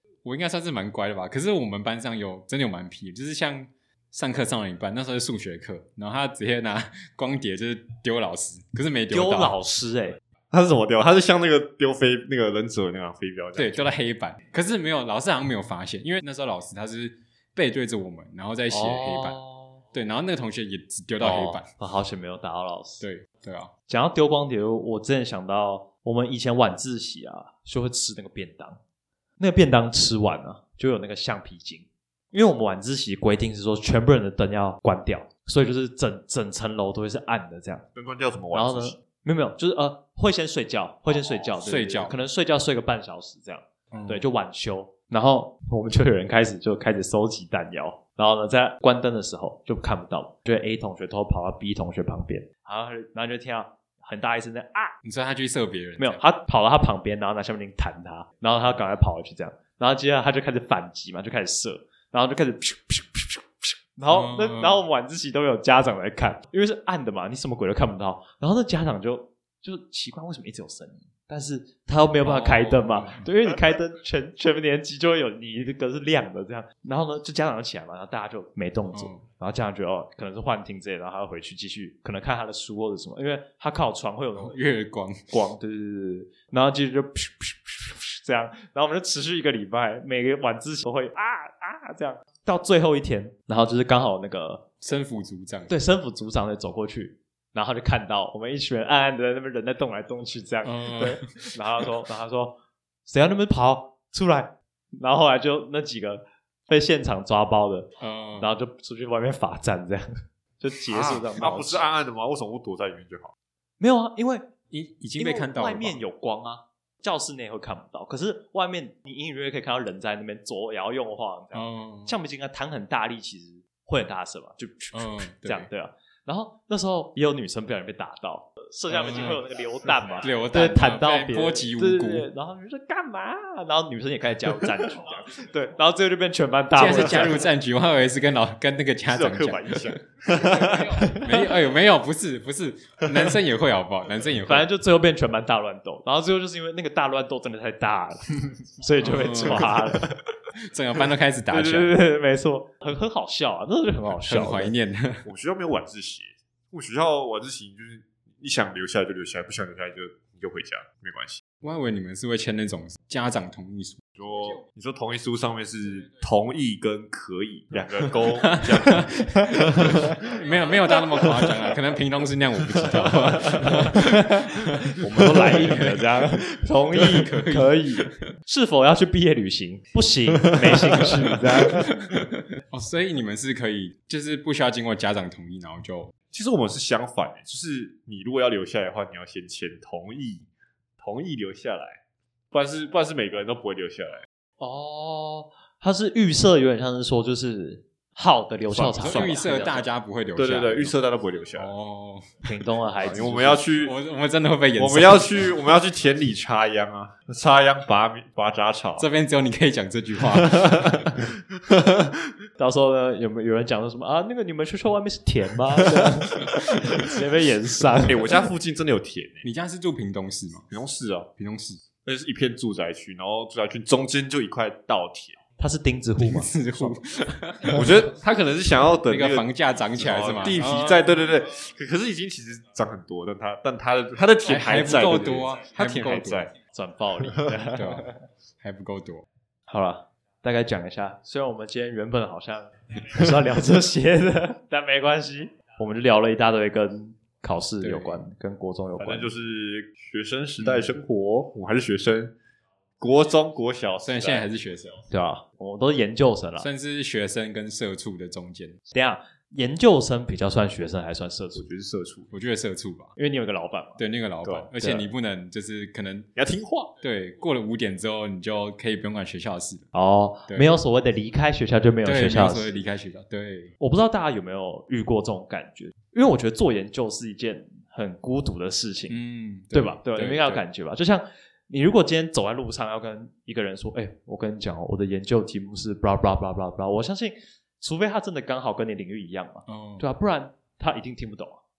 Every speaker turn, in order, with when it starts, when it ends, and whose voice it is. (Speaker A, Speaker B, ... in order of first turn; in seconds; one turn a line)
Speaker A: 0.2-9.6
Speaker B: 9.1-10.2
Speaker C: 10.5-13.9
Speaker A: 13.6-19.4
Speaker B: 18.7-19.8
Speaker A: 19.9-21.7
Speaker B: 21.2-23.0
Speaker A: 23.0-23.7
Speaker B: 23.9-28.8
Speaker B: 29.4-37.8
Speaker C: 37.9-39.0
Speaker B: 38.5-54.9
Speaker A: 41.6-42.1
Speaker A: 43.9-44.2
Speaker A: 55.0-56.2
Speaker B: 56.0-84.6
Speaker A: 64.1-64.8
Speaker A: 72.2-73.3
Speaker A: 78.9-79.2
Speaker A: 84.4-85.2
Speaker B: 85.3-94.6
Speaker A: 94.8-95.7
Speaker B: 95.7-102.5
Speaker A: 100.6-101.5
Speaker B: 103.0-110.1
Speaker A: 108.0-108.5
Speaker B: 110.6-111.9
Speaker C: 110.9-113.3
Speaker B: 113.8-114.5
Speaker A: 114.7-116.0
Speaker B: 115.2-137.4
Speaker A: 121.5-122.1
Speaker A: 124.9-125.7
Speaker A: 128.9-129.4
Speaker A: 130.2-132.3
Speaker A: 136.7-144.7
Speaker C: 139.1-141.1
Speaker B: 140.6-141.4
Speaker B: 144.4-150.1
Speaker A: 149.0-149.8
Speaker A: 150.6-152.0
Speaker B: 151.5-154.7
Speaker A: 154.1-155.2
Speaker C: 155.2-161.4
Speaker A: 161.6-164.0
Speaker C: 164.2-170.2
Speaker A: 168.2-169.1
Speaker B: 169.2-169.8
Speaker A: 169.8-178.1
Speaker C: 172.9-173.1
Speaker B: 173.6-182.0
Speaker A: 181.3-186.1
Speaker C: 186.3-190.5
Speaker C: 191.0-192.0
Speaker C: 192.5-194.2
Speaker B: 194.6-199.8
Speaker C: 198.7-199.4
Speaker A: 199.0-200.9
Speaker C: 200.3-201.7
Speaker A: 201.5-202.3
Speaker B: 202.4-203.7
Speaker C: 203.0-203.9
Speaker A: 203.8-205.5
Speaker C: 204.8-209.1
Speaker A: 209.0-211.2
Speaker C: 210.3-212.1
Speaker B: 212.6-218.3
Speaker C: 218.1-219.5
Speaker A: 219.4-220.7
Speaker C: 220.7-221.3
Speaker A: 221.4-221.8
Speaker C: 222.0-225.4
Speaker B: 225.6-227.0
Speaker A: 226.2-228.1
Speaker C: 227.7-236.5
Speaker A: 229.1-231.2
Speaker A: 234.4-236.5
Speaker B: 236.7-238.2
Speaker A: 237.7-239.2
Speaker B: 239.7-249.3
Speaker A: 247.8-248.2
Speaker C: 249.0-252.3
Speaker A: 250.6-250.9
Speaker C: 253.0-254.5
Speaker A: 254.0-255.0
Speaker B: 255.1-256.7
Speaker A: 256.6-258.8
Speaker B: 258.9-261.7
Speaker C: 261.5-262.3
Speaker A: 262.3-263.1
Speaker B: 263.1-264.0
Speaker A: 264.0-266.3
Speaker B: 264.8-265.1
Speaker C: 266.3-266.9
Speaker A: 267.0-269.9
Speaker B: 269.9-272.8
Speaker A: 270.5-270.7
Speaker A: 272.0-273.8
Speaker B: 273.8-279.2
Speaker A: 279.1-280.6
Speaker B: 279.7-291.6
Speaker A: 289.7-290.1